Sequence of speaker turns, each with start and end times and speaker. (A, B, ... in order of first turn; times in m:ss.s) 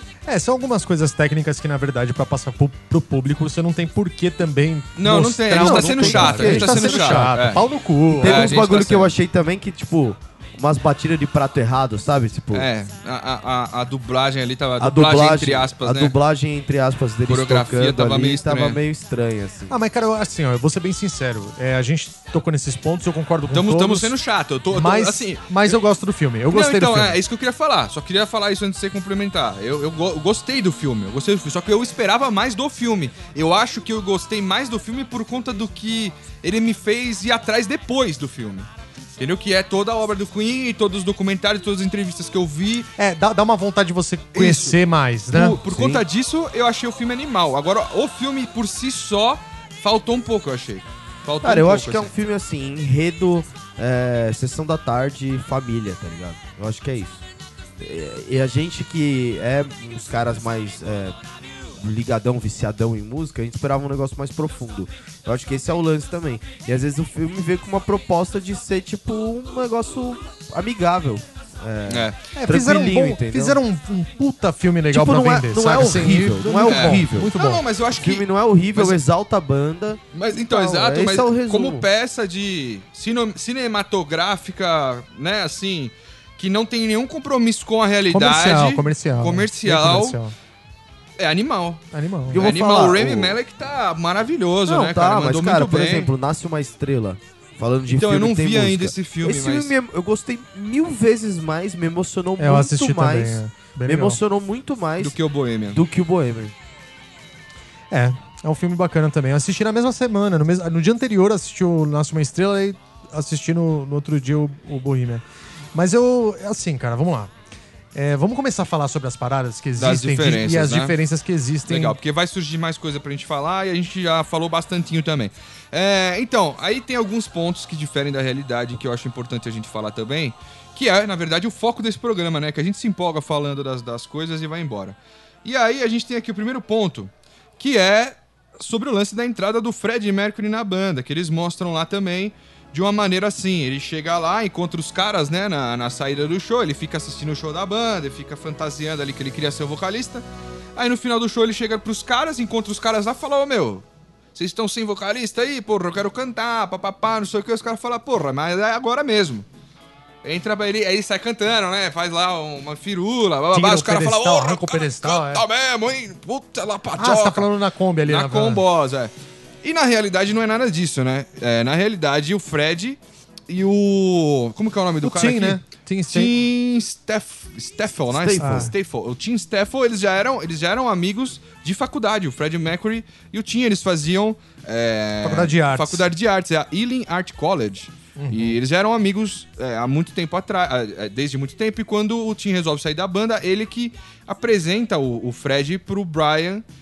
0:00.3-0:08.5 A
0:05.0-0:09.1 B
0:05.5-0:07.3 C
0:08.2-0:12.7 C
0:12.5-0:16.1 B
0:14.8-0:19.8 C
0:17.3-0:18.8 B
0:19.7-0:24.2 A
0:23.5-0:25.8 B
0:24.7-0:27.2 A
0:26.5-0:42.9 B
0:43.0-0:45.6 A
0:44.3-0:44.8 B
0:45.3-0:52.1 B
0:45.6-0:46.0 C
0:51.4-0:57.2 C
0:57.8-1:01.2 C
1:01.8-1:13.6 C
1:11.9-1:12.2 B
1:12.4-1:17.6 A
1:14.9-1:17.3 C
1:16.7-1:19.0 B
1:18.0-1:21.9 C
1:20.1-1:30.2 B
1:28.1-1:30.3 A
1:31.2-1:31.8 B
1:31.9-1:32.4 A
1:32.3-1:33.4 C
1:32.3-1:36.1 B
1:34.7-1:45.2 C
1:37.9-1:39.7 B
1:42.4-1:44.2 A
1:45.0-1:45.8 B
1:45.7-1:46.6 C
1:47.9-1:55.2 A
1:55.7-1:57.3 A
1:58.0-2:02.0 A
1:59.8-2:01.0 B
2:01.7-2:30.2 B
2:30.8-2:33.8 B
2:34.4-2:39.5 B
2:40.2-2:47.5 B
2:43.5-2:45.4 A
2:47.0-2:48.6 A
2:48.1-2:49.1 B
2:49.6-3:16.6 B
2:55.0-2:56.3 A
2:58.1-2:58.7 C
2:58.4-2:58.7 A
3:05.2-3:06.0 A
3:08.2-3:08.6 A